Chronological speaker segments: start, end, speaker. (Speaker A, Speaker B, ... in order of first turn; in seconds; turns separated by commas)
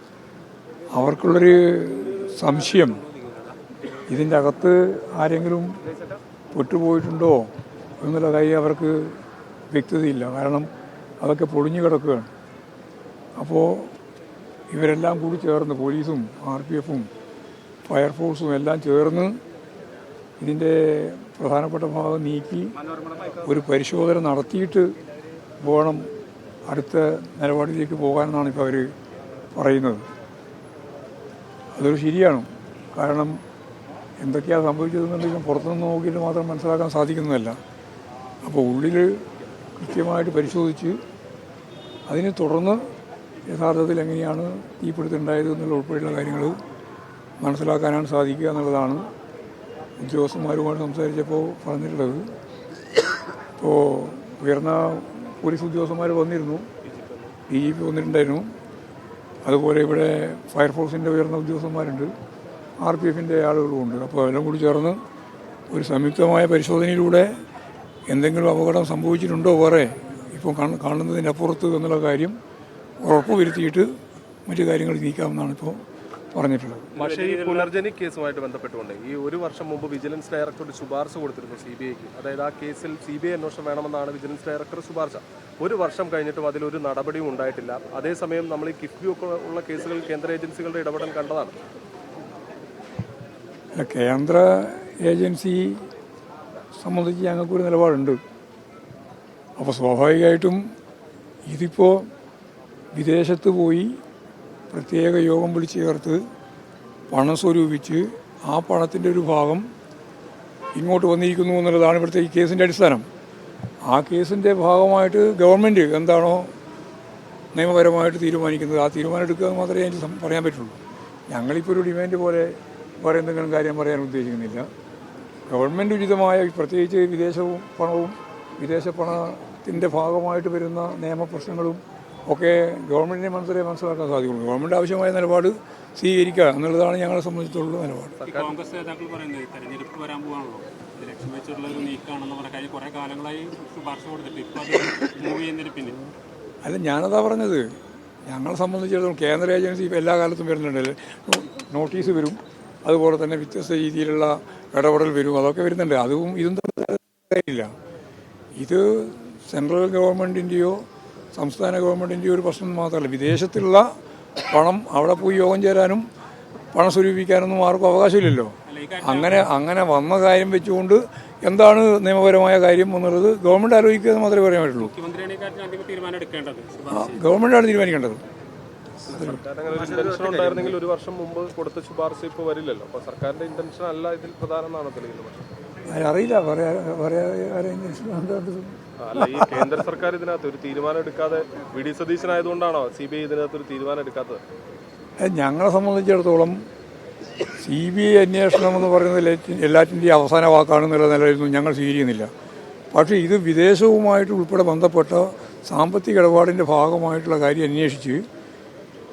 Speaker A: 0.9-3.0, Speaker A: 4.1-5.8, Speaker A: 6.5-10.7, Speaker A: 11.2-12.3, Speaker A: 13.4-13.9, Speaker A: 14.7-17.1, Speaker A: 17.9-19.4, Speaker A: 20.4-22.7, Speaker A: 23.4-24.9, Speaker A: 25.6-26.1, Speaker A: 26.6-28.9, Speaker A: 29.5-30.1, Speaker A: 31.7-33.4, Speaker A: 34.2-37.6, Speaker A: 38.4-41.0, Speaker A: 42.1-42.8, Speaker A: 43.5-46.6, Speaker A: 47.4-49.1, Speaker A: 50.0-52.3, Speaker A: 53.6-56.7, Speaker A: 57.5-58.5, Speaker A: 59.4-62.1, Speaker A: 62.8-65.0, Speaker A: 65.7-67.4, Speaker A: 68.1-72.4, Speaker A: 73.0-73.9, Speaker A: 74.5-76.9, Speaker B: 76.9-77.7, Speaker C: 76.9-91.5, Speaker A: 93.8-95.8, Speaker A: 96.8-98.2, Speaker A: 99.6-100.6, Speaker A: 101.5-102.1, Speaker A: 102.9-104.0, Speaker A: 104.7-106.2, Speaker A: 107.1-109.7, Speaker A: 110.7-113.0, Speaker A: 113.8-116.5, Speaker A: 117.5-120.8, Speaker A: 121.3-124.7, Speaker A: 125.5-138.2, Speaker C: 138.2-138.5, Speaker B: 138.2-146.0, Speaker A: 146.6-147.7, Speaker A: 148.3-157.7, Speaker A: 158.5-163.9, Speaker A: 164.5-166.1, Speaker A: 166.7-174.9, Speaker B: 168.7-169.4, Speaker B: 174.8-177.2, Speaker A: 176.9-178.2, Speaker C: 179.1-185.5, Speaker B: 179.8-180.6, Speaker A: 185.9-188.8, Speaker C: 189.0-194.4, Speaker A: 195.2-196.6, Speaker A: 197.5-202.3, Speaker A: 202.9-208.2